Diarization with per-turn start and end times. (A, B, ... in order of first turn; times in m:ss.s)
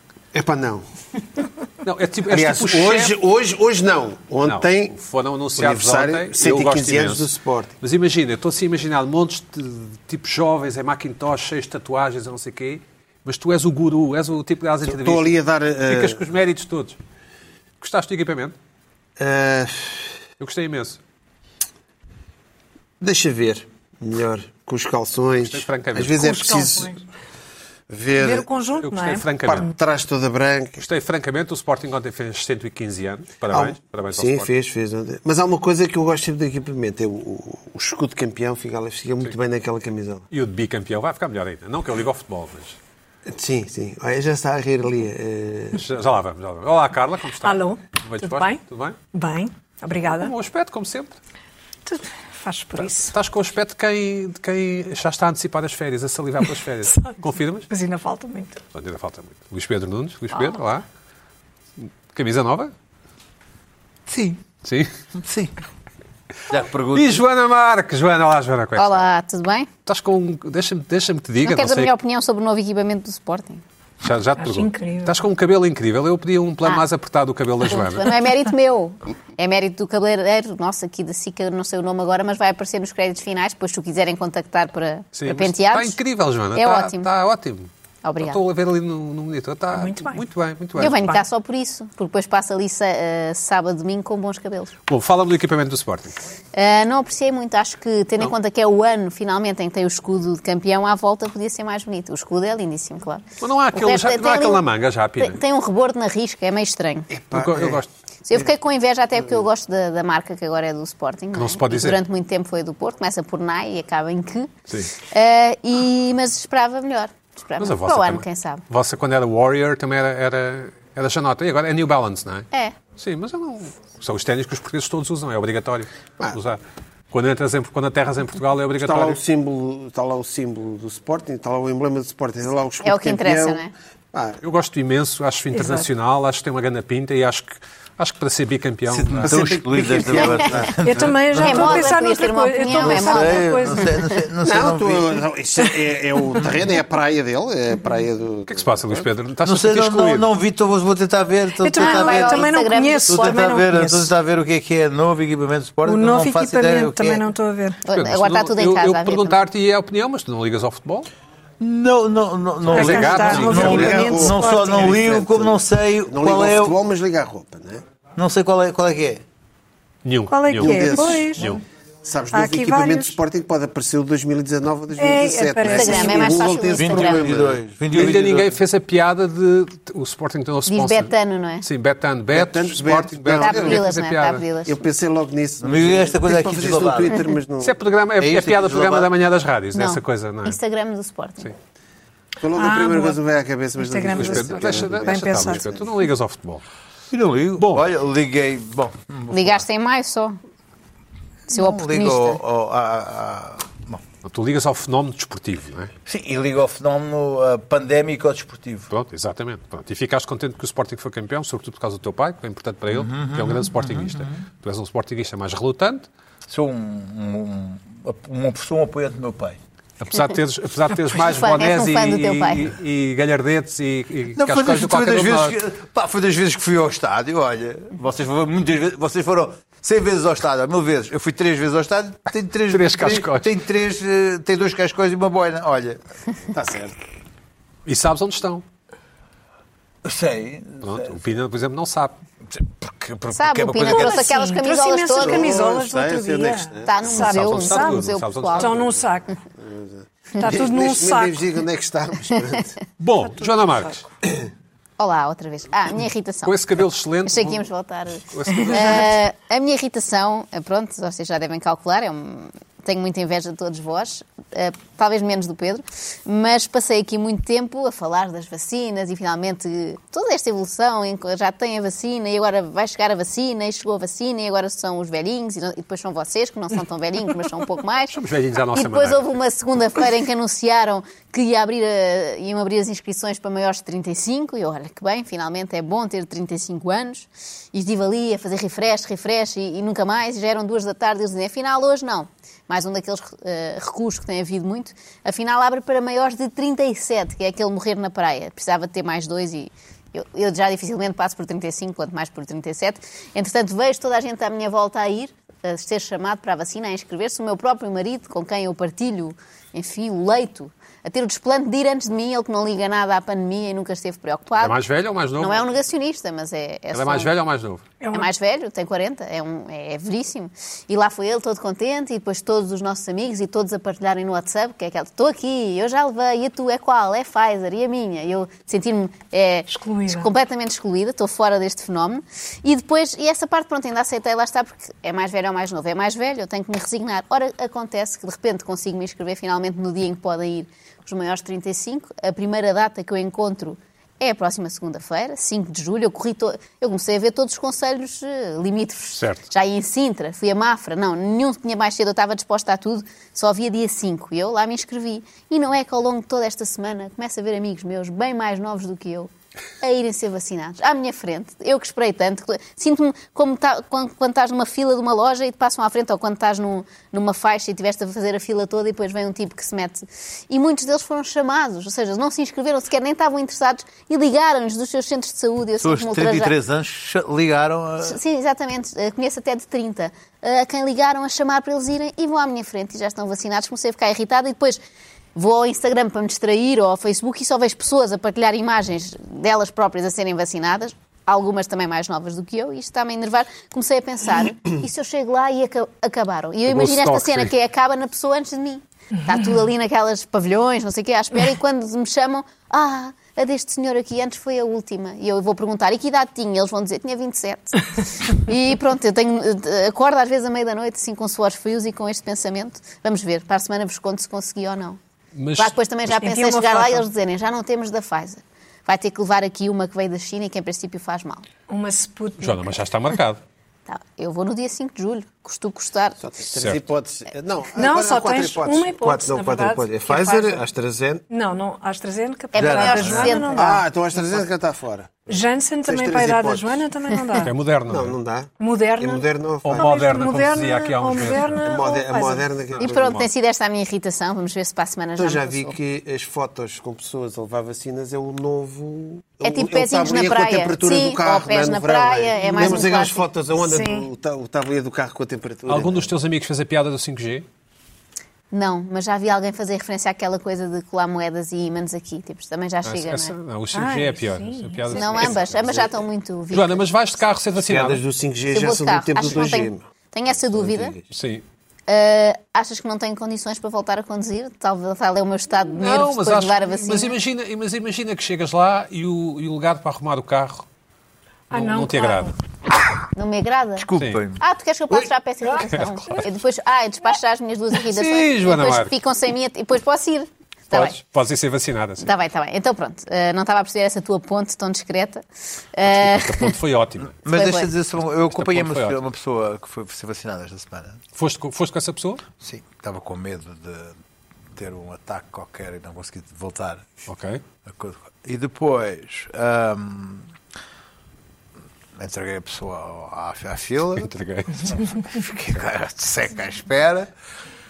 0:00.3-0:00.9 A
0:01.8-0:03.1 B
0:02.3-0:05.0 A
0:04.5-0:15.3 B
0:05.5-0:07.8 A
0:14.8-0:16.2 A
0:15.9-0:17.0 B
0:17.8-0:18.5 B
0:19.2-0:20.1 A
0:20.4-0:21.0 B
0:23.0-0:26.9 A
0:25.4-0:26.2 B
0:26.2-0:27.0 C
0:27.9-0:28.5 A
0:28.2-0:29.3 C
0:28.8-0:29.7 B
0:29.5-0:30.8 A
0:30.8-0:34.5 B
0:33.5-0:40.2 A
0:40.3-0:42.8 B
0:43.2-0:45.8 A
0:45.7-0:49.0 B
0:47.4-0:48.6 C
0:49.1-0:50.3 C
0:50.0-0:51.2 B
0:51.9-0:53.1 C
0:52.8-0:57.7 B
0:57.7-0:58.6 C
0:58.7-1:00.8 B
1:01.8-1:02.7 B
1:04.1-1:04.4 D
1:04.6-1:04.9 B
1:05.1-1:05.5 D
1:06.5-1:07.2 D
1:06.9-1:09.1 B
1:08.8-1:09.7 E
1:09.8-1:11.9 B
1:11.4-1:13.6 E
1:14.0-1:18.1 B
1:14.4-1:15.2 C
1:17.7-1:26.0 E
1:25.1-1:31.2 B
1:26.6-1:27.1 E
1:28.0-1:28.4 E
1:29.7-1:30.2 C
1:30.8-1:34.8 E
1:30.8-1:31.2 C
1:34.9-1:36.2 B
1:36.5-1:44.6 E
1:43.4-1:45.4 B
1:45.2-1:47.1 E
1:47.1-1:47.8 A
1:47.3-1:47.9 B
1:48.3-1:58.6 E
1:51.3-1:52.0 B
1:57.6-2:06.6 B
2:07.1-2:09.2 B
2:08.8-2:14.4 A
2:12.8-2:13.7 E
2:14.4-2:19.4 B
2:15.5-2:15.9 C
2:18.9-2:21.9 D
2:19.3-2:21.1 A
2:20.8-2:24.0 C
2:21.4-2:24.2 E
2:22.7-2:25.2 D
2:24.4-2:29.0 A
2:28.5-2:30.3 B
2:29.4-2:37.2 D
2:31.6-2:34.1 C
2:31.8-2:33.5 E
2:35.8-2:37.8 C
2:37.8-2:39.4 E
2:37.9-2:41.1 B
2:41.6-2:46.8 D
2:42.7-2:44.0 B
2:42.7-2:45.0 C
2:43.1-2:47.8 A
2:48.2-2:49.2 D
2:50.0-2:51.6 B
2:50.3-2:51.5 C
2:50.6-2:57.6 A
2:52.3-2:53.2 C
2:55.0-2:56.6 C
2:55.7-2:57.3 E
2:56.7-2:58.6 D
2:57.9-3:04.4 B
3:00.7-3:01.6 E
3:02.3-3:03.9 A
3:03.4-3:04.8 E
3:04.6-3:07.8 A
3:05.6-3:07.2 D
3:07.6-3:10.6 B
3:08.2-3:09.1 D
3:09.7-3:11.5 E
3:12.4-3:15.9 A
3:12.6-3:13.2 C
3:13.8-3:15.7 C
3:14.1-3:16.6 B
3:17.1-3:19.6 D
3:17.6-3:17.9 B
3:19.3-3:20.4 E
3:21.5-3:24.0 D
3:21.5-3:22.4 E
3:24.2-3:25.9 B
3:26.1-3:28.9 D
3:28.9-3:36.1 B
3:32.9-3:34.4 D
3:36.5-3:39.6 D
3:40.0-3:45.6 B
3:41.2-3:42.7 E
3:44.4-3:56.0 D
3:52.7-3:53.5 B
3:56.5-3:57.0 A
3:57.9-3:58.6 B
4:00.0-4:01.2 D
4:00.8-4:02.2 B
4:02.5-4:04.4 D
4:03.3-4:05.6 E
4:03.7-4:09.3 C
4:05.2-4:07.2 A
4:06.9-4:08.8 E
4:07.1-4:09.0 B
4:09.6-4:12.8 A
4:10.4-4:11.4 C
4:13.0-4:14.0 B
4:14.2-4:14.5 A
4:15.0-4:16.6 E
4:16.4-4:17.7 B
4:17.2-4:38.2 E
4:18.2-4:19.2 B
4:38.1-4:39.3 B
4:38.7-5:14.8 E
5:14.6-5:15.7 B
5:15.4-5:17.3 E
5:16.9-5:17.8 B
5:18.0-5:18.3 C
5:18.1-5:59.3 E
5:29.7-5:30.3 C
5:49.1-5:49.4 B
5:59.8-6:16.5 E
6:15.8-6:18.2 D
6:18.0-6:24.8 E
6:25.3-6:55.0 E
6:36.6-6:37.5 B
6:39.1-6:39.6 C
6:55.3-6:55.8 B
6:55.6-7:01.4 E
6:56.1-6:57.1 C
7:01.7-7:02.8 C
7:02.4-7:03.4 B
7:03.9-7:06.2 E
7:06.2-7:11.2 A
7:06.6-7:06.8 B
7:07.8-7:10.6 C
7:11.3-7:13.8 C
7:12.5-7:13.4 D
7:12.5-7:13.8 E
7:13.5-7:16.8 A
7:15.3-7:17.5 C
7:17.4-7:18.1 B
7:17.9-7:19.9 A
7:18.6-7:19.2 C
7:19.6-7:21.6 B
7:19.8-7:22.4 C
7:21.6-7:23.3 A
7:22.8-7:25.8 E
7:22.8-7:23.2 B
7:25.2-7:36.1 A
7:29.4-7:33.2 E
7:32.4-7:32.8 C
7:33.6-7:34.1 C
7:35.7-7:37.4 B
7:38.5-7:43.3 E
7:42.8-7:45.9 B
7:43.7-7:45.1 C
7:44.9-7:46.8 E
7:45.2-7:46.0 A
7:46.5-7:48.0 B
7:47.6-7:51.1 A
7:48.5-7:51.0 E
7:51.1-7:51.4 B
7:51.9-7:57.1 E
7:55.8-8:00.6 B
8:01.5-8:02.3 C
8:01.5-8:02.3 B
8:03.1-8:03.9 E
8:03.8-8:04.4 D
8:03.9-8:04.2 B
8:04.4-8:10.9 E
8:05.7-8:06.3 B
8:07.9-8:08.9 B
8:10.7-8:12.1 B
8:12.0-8:15.2 E
8:15.8-8:16.6 E
8:15.8-8:17.2 B
8:17.2-8:21.0 D
8:17.3-8:17.7 E
8:18.3-8:19.0 B
8:21.1-8:22.2 B
8:22.4-8:23.9 D
8:24.5-8:27.0 D
8:27.1-8:27.4 B
8:27.6-8:30.3 D
8:32.0-8:34.1 D
8:34.0-8:34.9 B
8:34.7-8:37.1 D